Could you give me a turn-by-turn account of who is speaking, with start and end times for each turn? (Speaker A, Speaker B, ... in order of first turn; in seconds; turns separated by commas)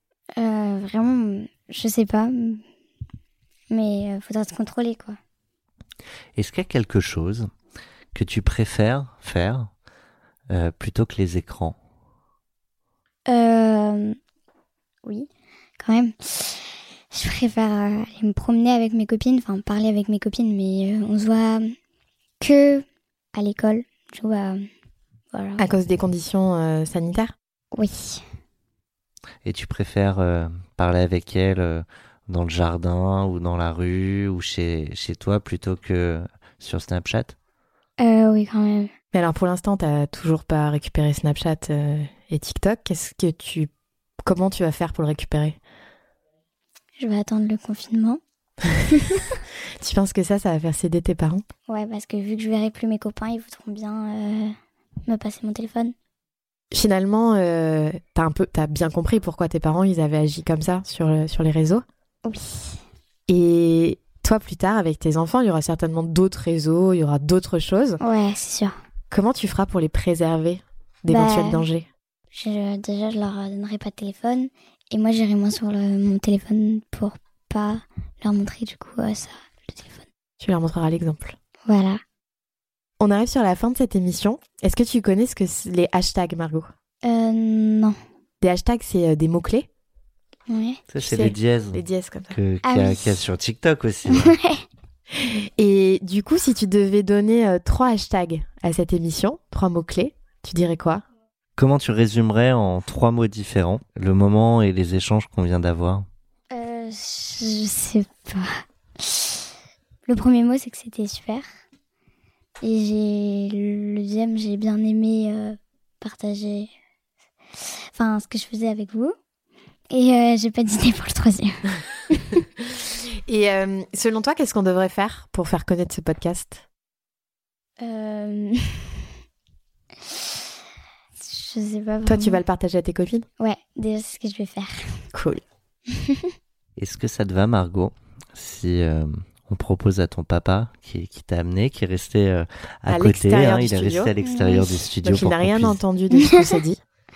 Speaker A: 0.4-2.6, Speaker A: 3.7-5.2, Speaker B: 6.4-7.5, Speaker B: 8.1-9.7, Speaker B: 10.5-11.8, Speaker A: 13.3-14.2, Speaker A: 15.8-21.8, Speaker A: 22.4-24.6, Speaker A: 25.3-25.6, Speaker C: 25.6-27.3, Speaker A: 27.7-28.2, Speaker B: 29.4-37.4, Speaker A: 38.0-38.9, Speaker C: 39.1-43.7, Speaker C: 44.2-45.6, Speaker A: 47.0-48.2, Speaker A: 48.9-49.3, Speaker C: 49.8-51.4, Speaker A: 51.7-54.5, Speaker A: 55.1-55.9, Speaker C: 56.7-61.8, Speaker A: 62.2-62.8, Speaker C: 63.3-68.0, Speaker A: 68.0-68.8, Speaker C: 69.1-71.9, Speaker A: 71.1-71.7, Speaker A: 72.3-80.0, Speaker C: 80.4-81.3, Speaker A: 81.7-82.0, Speaker C: 83.0-86.7, Speaker A: 87.0-88.0, Speaker C: 88.4-89.7, Speaker A: 90.5-90.8, Speaker B: 90.9-94.4, Speaker C: 91.0-92.4, Speaker A: 92.7-93.2, Speaker A: 94.1-94.6, Speaker C: 95.1-101.0, Speaker B: 101.6-106.1, Speaker A: 106.5-109.4, Speaker A: 110.1-111.5, Speaker A: 112.6-116.7, Speaker A: 117.6-119.2, Speaker A: 119.9-122.4, Speaker C: 123.3-126.6, Speaker A: 127.8-129.0, Speaker A: 131.2-132.4, Speaker C: 132.1-133.3, Speaker A: 133.4-135.0, Speaker C: 135.1-135.4, Speaker A: 135.9-136.3, Speaker B: 136.8-145.8, Speaker C: 142.9-144.1, Speaker A: 144.2-144.8, Speaker C: 145.0-146.8